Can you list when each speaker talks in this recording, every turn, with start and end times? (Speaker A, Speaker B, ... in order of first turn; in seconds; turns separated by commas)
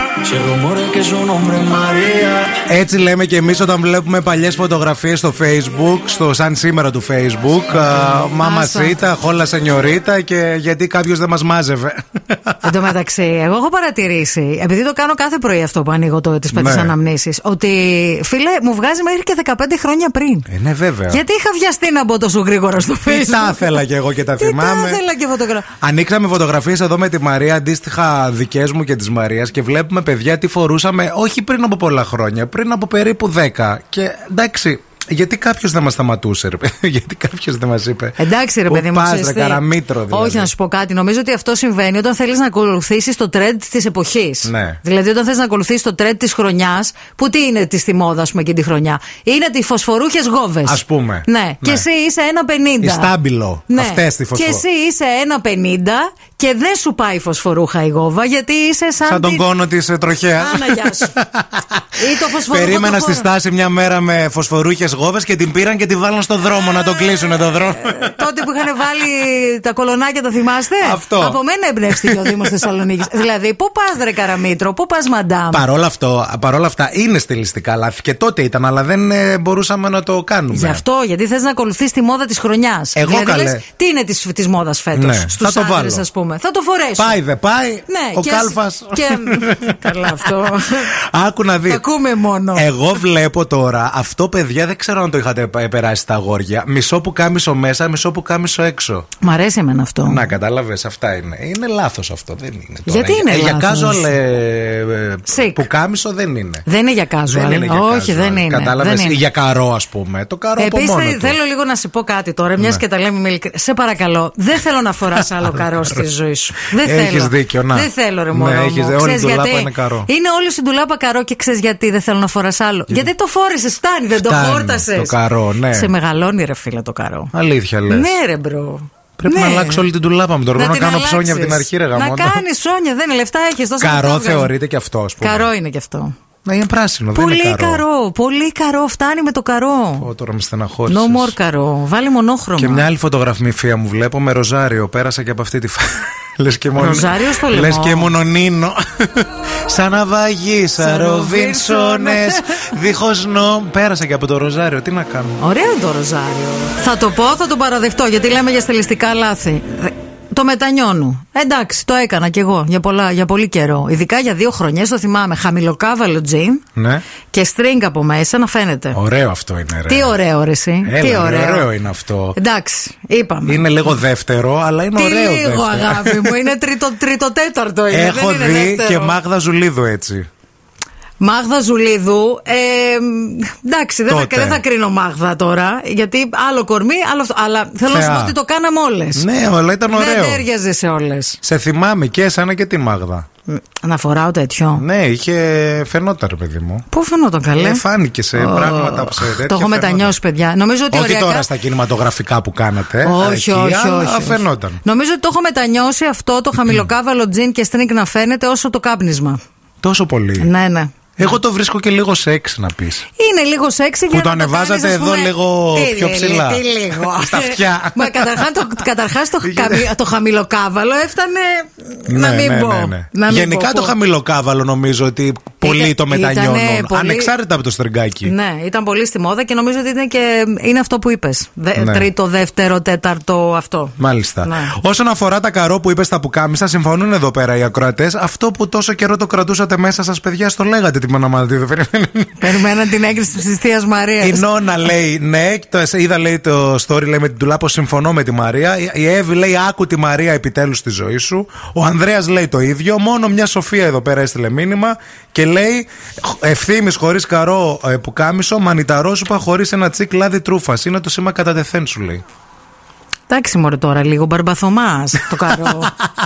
Speaker A: 0.2-2.6, Speaker B: 2.6-12.8, Speaker C: 8.1-9.0, Speaker C: 12.6-20.5, Speaker B: 16.5-16.9, Speaker B: 20.5-21.2, Speaker C: 21.1-23.8, Speaker B: 23.1-25.0, Speaker C: 24.4-25.7, Speaker B: 25.8-40.5, Speaker C: 38.2-53.1, Speaker B: 44.4-44.8, Speaker B: 50.7-51.9, Speaker B: 52.8-54.6, Speaker C: 53.7-59.5, Speaker B: 59.0-68.2, Speaker C: 60.4-61.1, Speaker C: 62.0-63.3, Speaker C: 67.6-75.6, Speaker B: 70.8-71.4, Speaker B: 71.9-72.5, Speaker B: 75.5-80.8, Speaker C: 80.5-87.2, Speaker B: 83.0-83.6, Speaker B: 84.9-86.0, Speaker B: 87.0-90.5, Speaker C: 87.9-90.9, Speaker B: 91.0-91.8, Speaker C: 91.7-92.7, Speaker B: 92.5-99.1, Speaker C: 99.2-100.3, Speaker B: 100.0-106.7, Speaker C: 102.9-104.1, Speaker C: 105.3-105.7, Speaker C: 106.7-109.2, Speaker B: 107.3-111.4, Speaker C: 110.6-125.2, Speaker B: 115.2-116.0, Speaker B: 116.7-120.1, Speaker B: 124.1-125.9, Speaker C: 125.7-127.3, Speaker B: 127.3-128.1, Speaker C: 127.9-129.8, Speaker B: 129.2-132.4, Speaker C: 130.6-134.5, Speaker B: 133.8-135.5, Speaker C: 135.2-136.1, Speaker B: 136.4-137.8, Speaker C: 137.2-140.1, Speaker B: 140.0-141.3, Speaker C: 140.9-142.9, Speaker B: 142.6-155.4, Speaker C: 146.8-148.1, Speaker C: 150.8-152.7, Speaker C: 155.4-166.6, Speaker B: 166.8-167.1, Speaker C: 167.3-169.0, Speaker B: 168.9-170.2, Speaker C: 169.9-171.7, Speaker B: 170.8-172.4, Speaker C: 172.3-173.7, Speaker B: 173.5-176.4, Speaker C: 174.9-179.2, Speaker B: 177.9-180.3, Speaker C: 181.2-189.3, Speaker B: 184.1-184.6, Speaker B: 187.8-188.3, Speaker B: 189.2-190.4, Speaker C: 189.9-191.4, Speaker B: 191.4-193.3, Speaker C: 193.5-194.8, Speaker B: 194.8-196.8, Speaker C: 196.9-197.8, Speaker B: 197.6-200.2, Speaker C: 198.3-201.5, Speaker B: 200.9-204.8, Speaker C: 203.0-209.4, Speaker B: 209.8-210.5, Speaker C: 210.4-211.3, Speaker B: 211.2-213.1, Speaker C: 213.2-223.9, Speaker B: 214.1-218.7, Speaker B: 219.4-219.9, Speaker B: 222.1-228.3, Speaker C: 225.6-227.3, Speaker C: 228.2-234.7, Speaker B: 231.8-232.1, Speaker B: 234.0-242.6, Speaker C: 242.4-244.5, Speaker B: 244.2-262.2, Speaker C: 263.3-265.9, Speaker B: 265.5-265.9